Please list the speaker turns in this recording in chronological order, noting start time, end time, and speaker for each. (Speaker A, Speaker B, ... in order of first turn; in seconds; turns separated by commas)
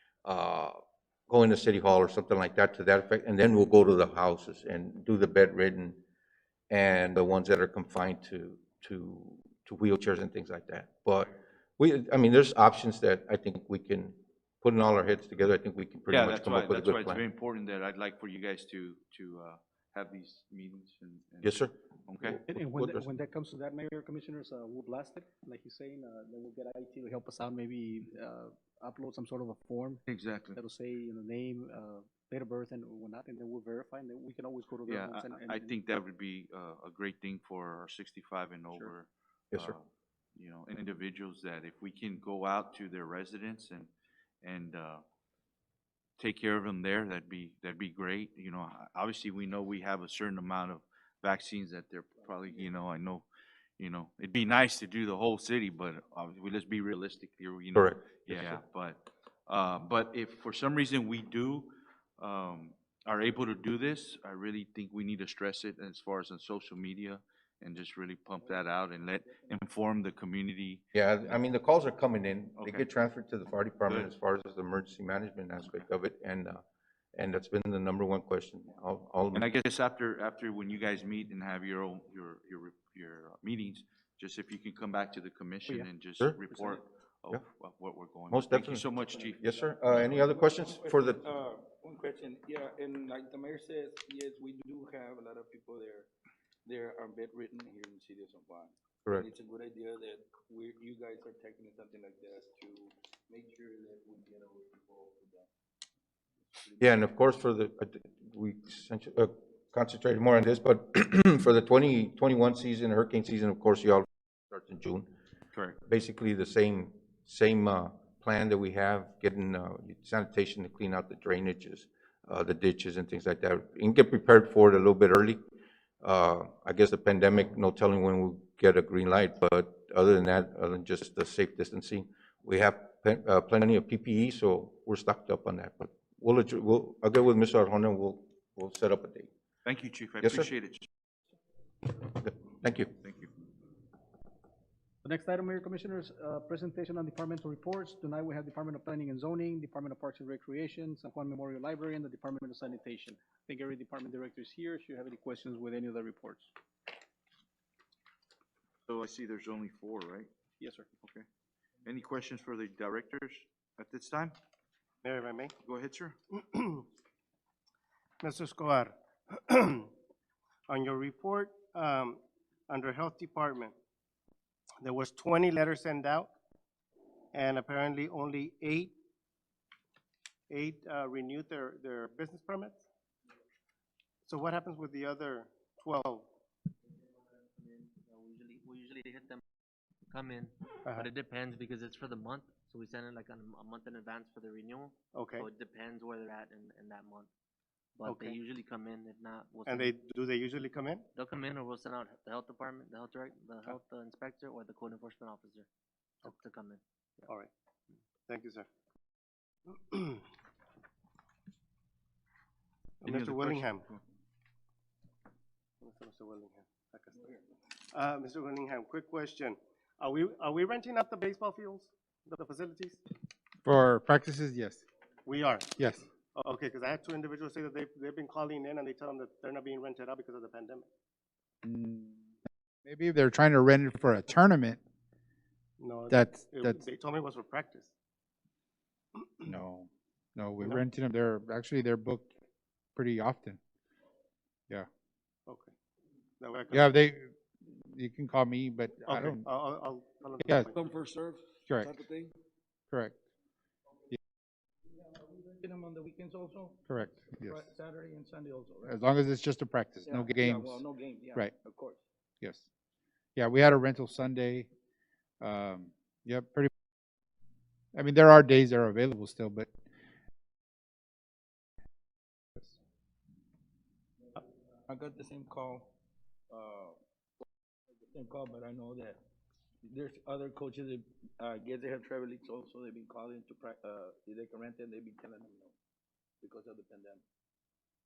Speaker A: 0.2-0.8, Speaker A: 1.3-6.0, Speaker A: 6.7-17.2, Speaker B: 16.1-21.6, Speaker A: 21.4-23.0, Speaker B: 22.1-22.4, Speaker C: 22.5-30.0, Speaker B: 30.1-30.6, Speaker C: 30.5-35.7, Speaker B: 34.9-43.9, Speaker B: 44.4-45.0, Speaker B: 46.2-53.2, Speaker B: 53.8-70.8, Speaker A: 57.7-58.0, Speaker D: 68.4-68.7, Speaker D: 69.2-69.6, Speaker A: 70.9-76.6, Speaker B: 72.6-72.8, Speaker A: 77.1-79.5, Speaker B: 79.3-90.1, Speaker A: 88.3-88.9, Speaker D: 89.2-96.1, Speaker A: 89.4-91.2, Speaker D: 96.6-105.5, Speaker D: 106.5-106.8, Speaker A: 106.8-115.1, Speaker B: 115.5-115.8, Speaker A: 115.9-125.4, Speaker A: 126.0-139.3, Speaker B: 139.6-140.9, Speaker A: 140.2-140.5, Speaker A: 142.2-142.9, Speaker B: 142.9-143.3, Speaker C: 145.0-156.5, Speaker B: 158.9-160.3, Speaker C: 160.6-160.9, Speaker B: 161.8-164.3, Speaker E: 165.0-165.5, Speaker B: 165.6-166.2, Speaker E: 166.3-166.8, Speaker E: 168.2-169.9, Speaker E: 170.7-173.7, Speaker E: 174.8-176.3, Speaker E: 177.3-179.0, Speaker E: 180.5-182.8, Speaker E: 184.2-186.3, Speaker F: 187.6-189.4, Speaker F: 190.1-190.5, Speaker F: 191.1-194.9, Speaker E: 195.1-195.5, Speaker F: 195.4-197.3, Speaker F: 198.0-199.6, Speaker E: 198.0-198.4, Speaker E: 199.7-201.1, Speaker F: 201.2-205.7, Speaker F: 206.3-206.8, Speaker E: 207.2-207.5, Speaker E: 208.3-208.7, Speaker E: 209.7-210.2, Speaker E: 213.0-213.8, Speaker B: 213.1-214.0, Speaker E: 215.8-217.3, Speaker E: 217.9-223.0, Speaker G: 223.6-224.8, Speaker E: 225.2-225.7, Speaker G: 225.8-226.0, Speaker E: 226.3-230.9, Speaker G: 231.6-234.8, Speaker E: 235.8-237.9, Speaker G: 236.1-236.8, Speaker G: 239.4-242.3, Speaker G: 242.9-243.6, Speaker E: 245.5-245.7, Speaker E: 246.4-247.0, Speaker G: 246.7-249.4, Speaker E: 249.1-250.8, Speaker G: 250.4-250.7, Speaker D: 250.7-252.3, Speaker G: 251.7-251.9, Speaker G: 252.9-253.2, Speaker D: 255.1-259.0, Speaker G: 256.9-257.6, Speaker G: 258.8-261.5, Speaker D: 260.0-262.0, Speaker G: 263.4-264.7, Speaker G: 265.4-266.7, Speaker G: 267.9-269.7, Speaker D: 274.9-275.9, Speaker D: 276.5-277.0, Speaker D: 277.9-279.2, Speaker D: 279.8-285.7, Speaker D: 286.4-287.2